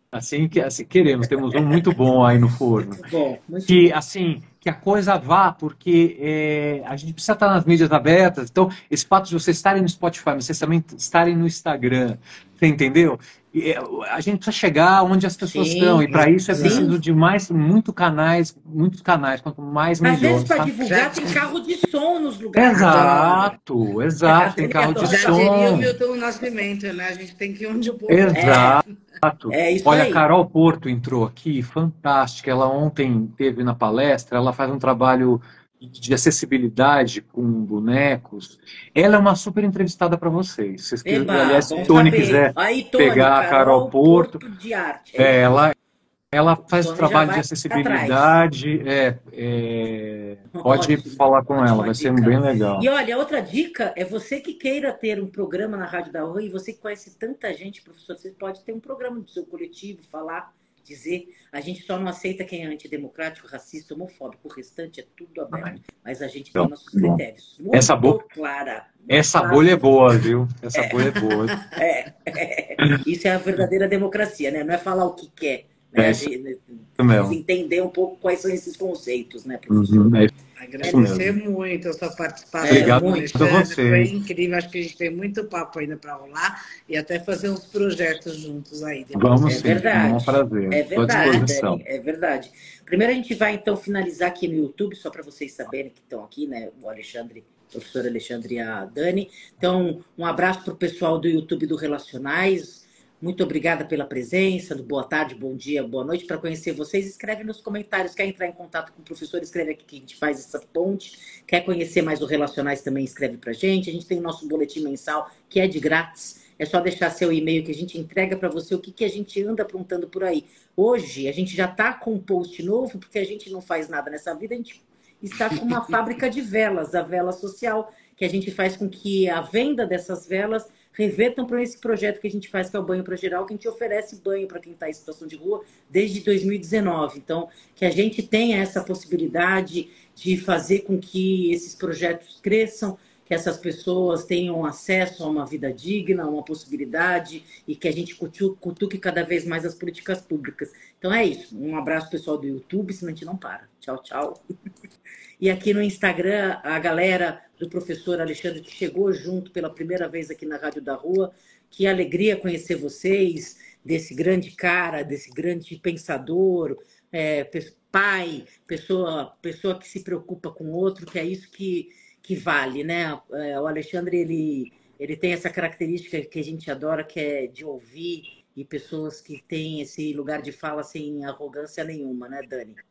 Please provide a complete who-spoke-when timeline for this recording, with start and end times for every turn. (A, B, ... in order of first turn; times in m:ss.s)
0:00.1-0:03.0 A
0:02.8-0:03.9 B
0:03.7-0:20.8 A
0:15.4-0:16.9 B
0:16.6-0:16.9 C
0:20.0-0:23.5 B
0:20.8-0:21.4 C
0:22.6-0:25.9 A
0:22.7-0:23.5 C
0:24.2-0:25.4 B
0:25.0-0:28.8 C
0:28.1-0:44.4 A
0:28.3-0:28.8 B
0:29.5-0:30.2 B
0:41.0-0:45.6 B
0:41.6-0:42.2 C
0:45.2-0:45.7 A
0:46.3-0:52.9 A
0:46.8-0:48.4 B
0:50.5-1:09.9 B
1:05.5-1:05.8 A
1:06.6-1:07.2 A
1:07.7-1:08.2 A
1:09.1-1:11.6 A
1:11.8-1:20.2 B
1:16.0-1:16.3 A
1:17.0-1:17.4 A
1:19.7-1:20.3 A
1:20.6-1:30.0 C
1:20.8-1:21.1 B
1:20.8-1:21.3 A
1:22.6-1:23.3 B
1:22.7-1:24.1 A
1:29.1-1:31.8 A
1:29.5-2:34.4 B
2:35.4-3:02.8 B